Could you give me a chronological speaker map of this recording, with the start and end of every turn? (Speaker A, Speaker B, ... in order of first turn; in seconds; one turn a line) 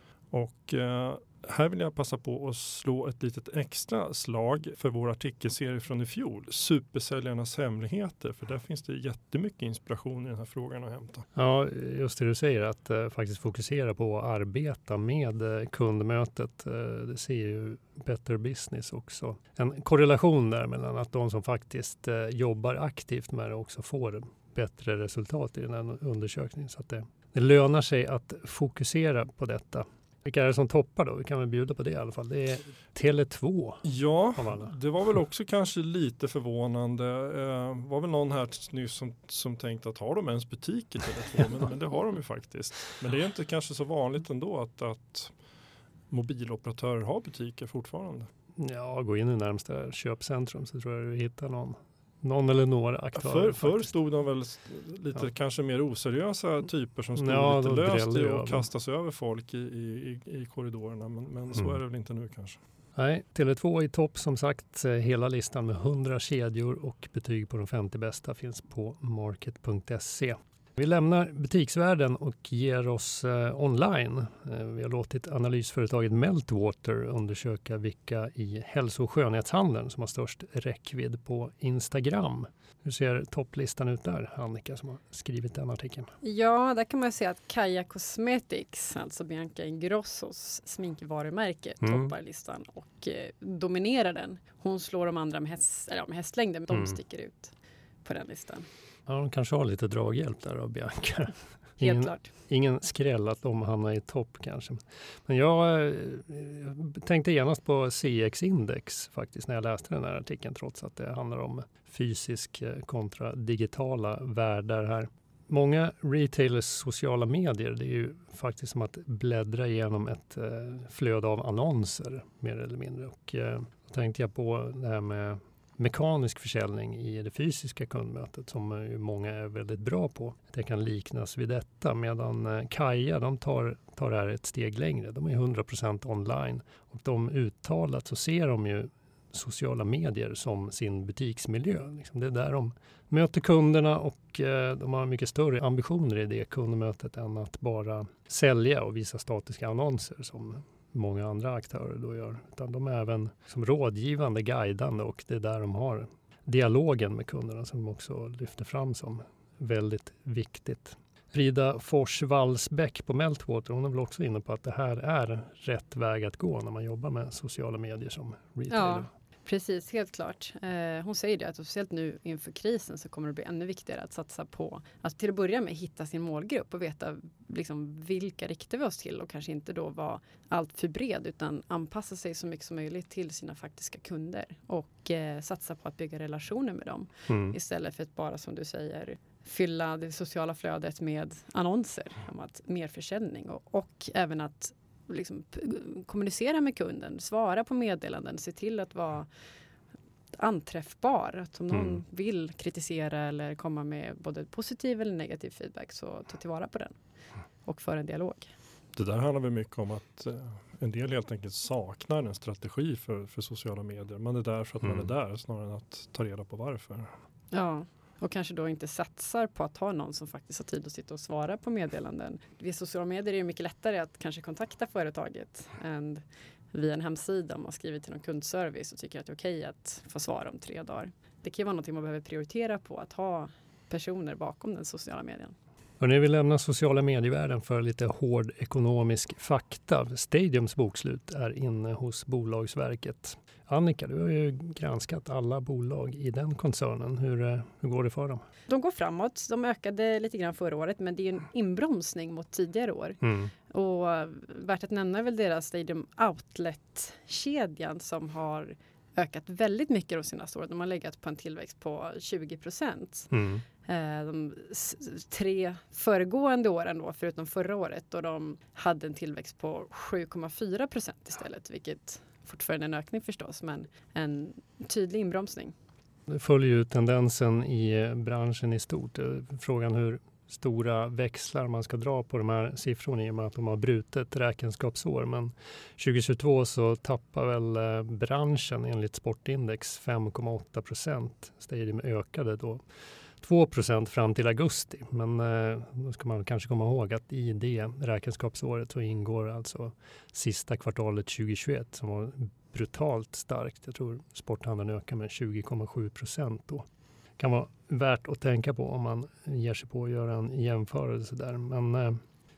Speaker A: 0.3-11.2
Speaker B: 11.4-33.9
Speaker A: 33.8-45.3
Speaker B: 34.4-34.7
Speaker A: 46.1-48.3
Speaker B: 48.6-53.9
Speaker A: 53.1-62.6
Speaker B: 57.2-58.7
Speaker B: 63.0-86.1
Speaker C: 86.2-97.5
Speaker B: 91.8-92.1
Speaker B: 96.7-97.0
Speaker C: 98.0-98.7
Speaker B: 99.1-169.1
Speaker C: 101.8-102.3
Speaker C: 168.7-199.3
Speaker B: 187.3-187.6
Speaker C: 200.4-207.0
Speaker C: 207.7-208.5
Speaker A: 208.9-217.1
Speaker C: 217.5-235.6
Speaker B: 236.0-248.4
Speaker C: 248.7-263.3
Speaker B: 253.2-253.5
Speaker B: 263.3-263.6
Speaker C: 263.8-275.7
Speaker B: 276.3-292.8
Speaker B: 293.4-306.9
Speaker B: 307.4-312.2